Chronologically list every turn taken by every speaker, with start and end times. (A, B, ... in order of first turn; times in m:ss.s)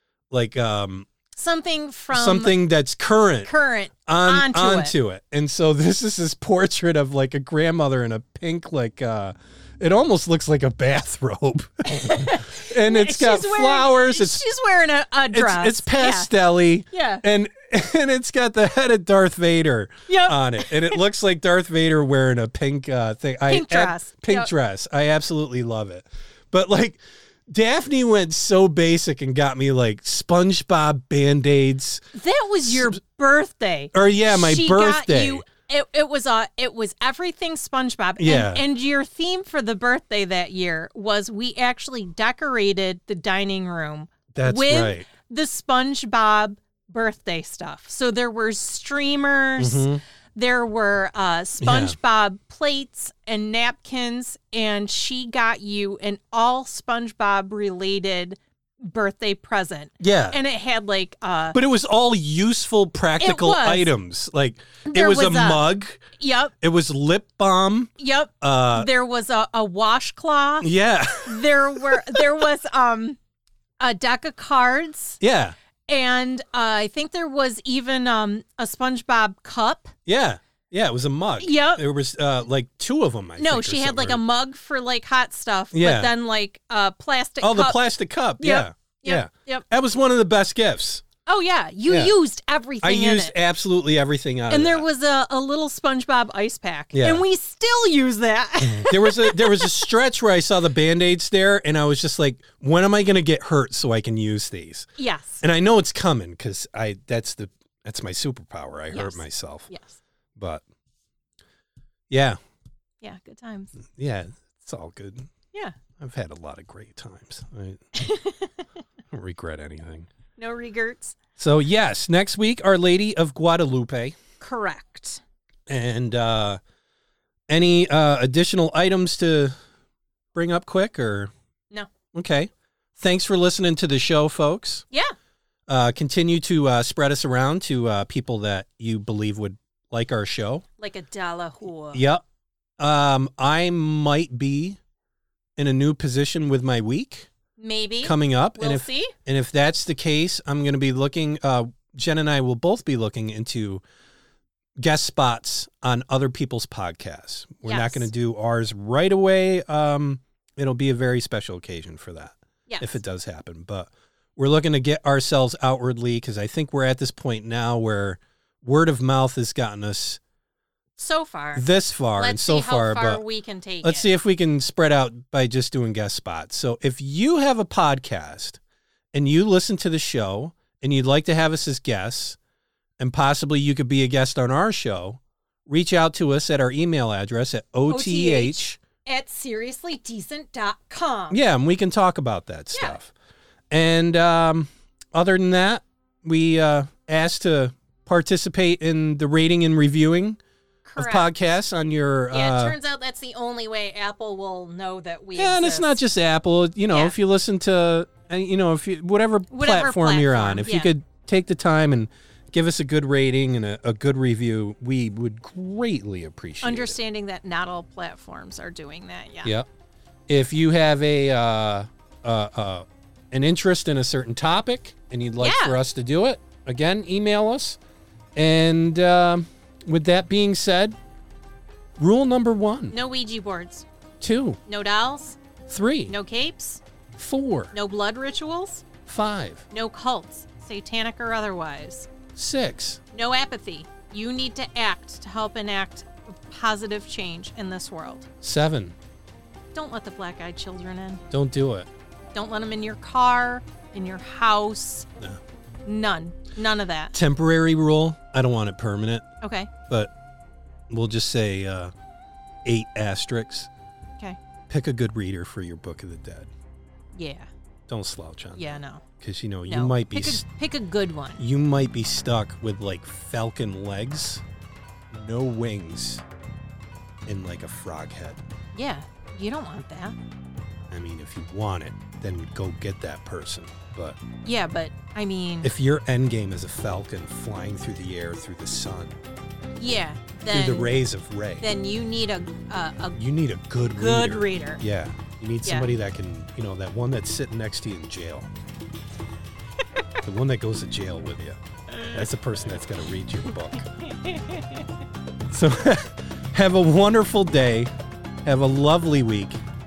0:00.3-0:01.1 A
0:01.4-0:02.6 B
0:02.1-0:03.5 A
0:03.4-0:04.9 B
0:04.1-0:14.4 A
0:11.9-0:16.3 B
0:15.3-0:32.0 A
0:16.9-0:17.2 B
0:20.1-0:21.0 B
0:23.5-0:24.5 B
0:32.2-1:01.6 B
0:33.9-0:35.4 A
0:38.2-0:38.6 A
0:44.3-0:45.1 A
0:49.6-0:50.0 A
0:51.6-0:52.0 A
1:00.0-1:00.4 A
1:01.5-1:06.0 A
1:03.2-1:03.9 B
1:04.9-1:05.6 B
1:06.2-1:06.5 B
1:06.6-1:08.9 A
1:08.0-1:10.7 B
1:10.6-1:12.2 A
1:11.3-1:13.2 B
1:13.8-1:15.2 B
1:15.2-1:15.6 A
1:15.9-1:19.9 B
1:20.1-1:24.2 A
1:21.4-1:21.8 B
1:23.4-1:27.8 B
1:25.7-1:26.1 A
1:27.4-1:31.0 A
1:28.4-1:29.6 B
1:31.3-1:33.3 B
1:31.9-1:32.2 A
1:32.8-1:34.9 A
1:34.5-1:39.8 B
1:36.9-1:37.2 A
1:38.8-1:44.9 A
1:45.0-1:45.4 B
1:45.4-1:49.7 A
1:48.9-1:50.0 B
1:50.4-1:50.6 A
1:52.1-1:52.4 A
1:53.0-1:53.7 B
1:53.9-1:55.3 A
1:56.0-1:57.8 A
1:58.0-1:58.7 B
1:59.1-2:00.1 A
2:00.4-2:01.2 B
2:01.4-2:04.2 A
2:04.4-2:05.2 B
2:05.7-2:06.6 A
2:07.5-2:09.5 A
2:10.3-2:11.3 A
2:12.1-2:14.8 A
2:15.7-2:20.6 A
2:20.8-2:22.0 B
2:21.9-2:22.2 A
2:22.8-2:24.8 A
2:25.6-2:27.3 A
2:27.6-2:29.2 B
2:28.0-2:33.8 A
2:34.8-2:50.2 A
2:37.6-2:38.1 B
2:42.7-2:43.0 B
2:51.0-2:51.7 B
2:51.6-2:53.2 A
2:52.2-2:54.1 B
2:53.8-2:58.6 A
2:59.1-3:02.4 A
3:03.0-3:08.8 A
3:07.9-3:11.4 B
3:11.3-3:13.1 A
3:12.7-3:13.0 B
3:13.7-3:20.4 A
3:20.8-3:21.3 B
3:21.0-3:22.8 A
3:22.3-3:26.0 B
3:25.4-3:37.0 A
3:26.9-3:27.2 B
3:29.5-3:30.9 B
3:36.6-3:39.5 B
3:40.3-3:47.8 A
3:45.4-3:45.8 B
3:48.4-3:51.0 A
3:52.0-3:52.9 A
3:52.9-3:53.8 B
3:54.2-3:54.6 A
3:54.7-3:55.4 B
3:55.7-3:56.2 A
3:56.1-3:56.8 B
3:57.2-3:57.7 A
3:57.7-3:58.9 B
3:59.1-3:59.7 A
3:59.7-4:02.1 B
4:02.4-4:03.0 A
4:03.1-4:08.3 B
4:08.4-4:09.0 A
4:09.8-4:11.2 B
4:11.3-4:11.9 A
4:12.3-4:15.1 B
4:15.9-4:17.2 B
4:17.1-4:19.3 A
4:19.4-4:19.7 B
4:20.9-4:21.9 A
4:22.6-4:23.7 A
4:24.7-4:26.5 A
4:27.1-4:27.5 B
4:27.9-4:30.5 A
4:28.6-4:29.0 B
4:29.7-4:31.4 B
4:31.4-4:34.4 A
4:35.1-4:36.2 A
4:37.3-4:38.4 A
4:38.7-4:40.2 B
4:40.9-4:44.2 A
4:44.4-4:45.7 B
4:45.6-4:49.2 A
4:49.8-4:51.0 B
4:50.5-4:51.7 A
4:51.6-4:53.2 B
4:53.2-4:58.5 A
4:54.0-4:54.8 B
5:00.2-5:01.6 A
5:01.9-5:02.2 B
5:02.1-5:03.9 A
5:04.0-5:04.9 B
5:05.5-5:07.9 A
5:08.4-5:09.6 A